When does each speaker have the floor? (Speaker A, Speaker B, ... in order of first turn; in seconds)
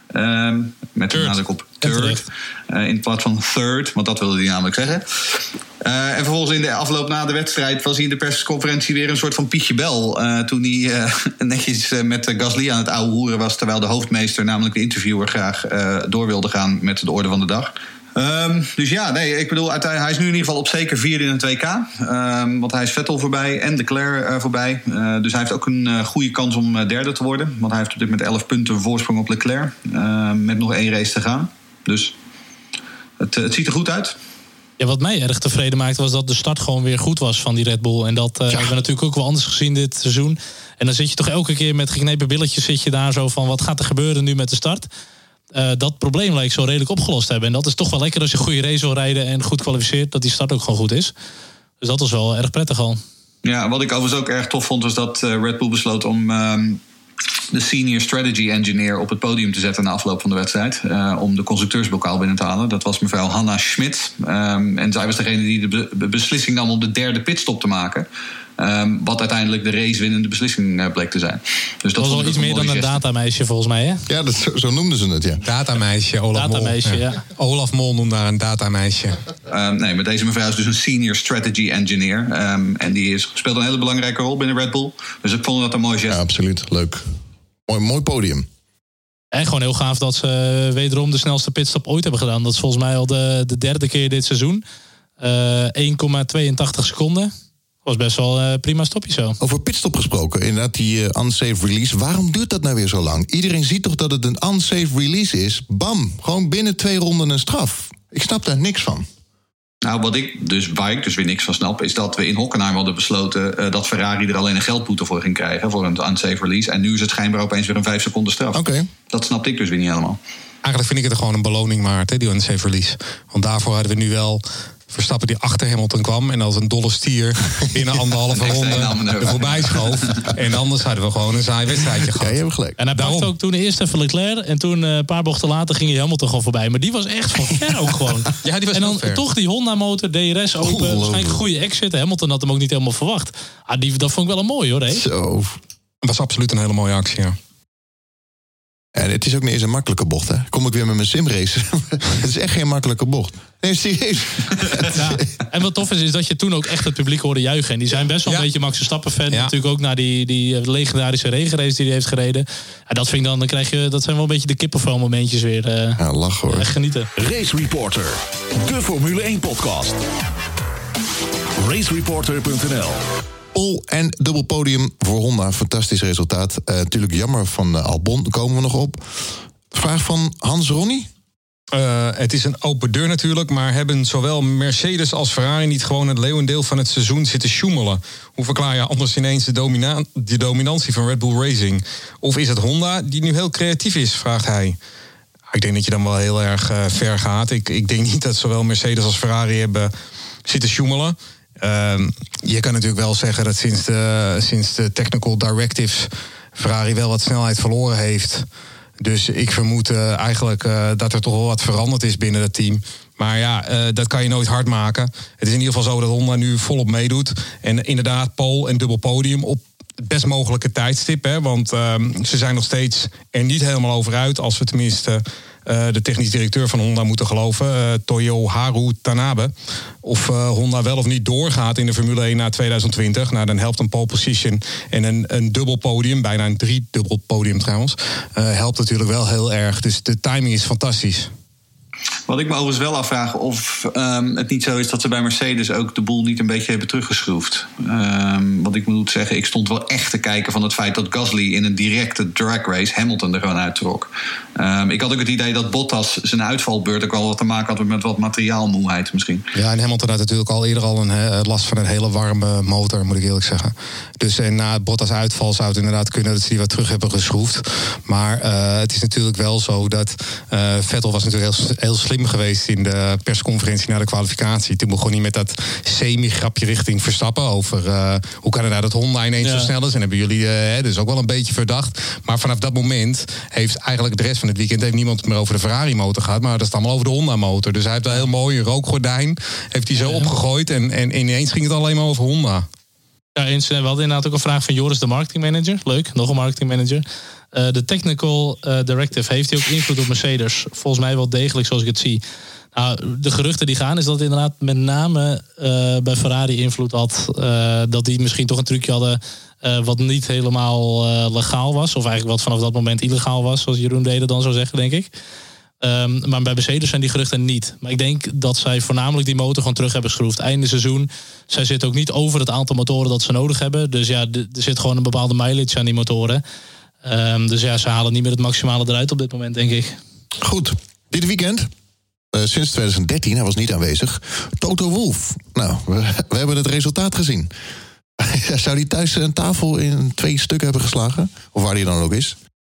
Speaker A: 0.1-32.1, 33.2-34.2, 53.4-56.8, 57.5-68.1, 68.6-73.0, 79.5-86.2, 109.8-120.2, 128.3-130.3, 242.3-259.4
Speaker B: 1.1-1.4, 75.4-79.2, 120.6-132.4, 132.9-133.3, 138.4-139.2, 146.0-147.4, 181.7-194.8, 195.5-199.9, 200.4-208.5, 209.0-229.5, 230.0-241.3, 259.5-292.7
Speaker C: 1.8-2.2, 34.8-44.9, 45.5-51.1, 51.8-53.0, 72.0-74.0, 76.3-77.2, 89.3-94.6, 95.2-97.3, 97.8-99.4, 132.8-145.0, 154.9-166.0, 166.5-167.1, 279.4-279.7, 290.0-290.3, 293.4-302.2, 302.8-315.1, 315.8-326.4, 327.0-330.0
Speaker D: 74.1-75.4, 86.1-87.1, 87.7-88.5, 99.4-109.1, 118.5-118.9, 132.2-132.8, 140.6-141.4, 144.9-145.6, 148.9-155.2, 166.0-166.7, 173.5-181.1, 330.4-331.7, 332.3-337.5, 338.2-342.4
Speaker E: 167.2-170.0, 171.6-173.0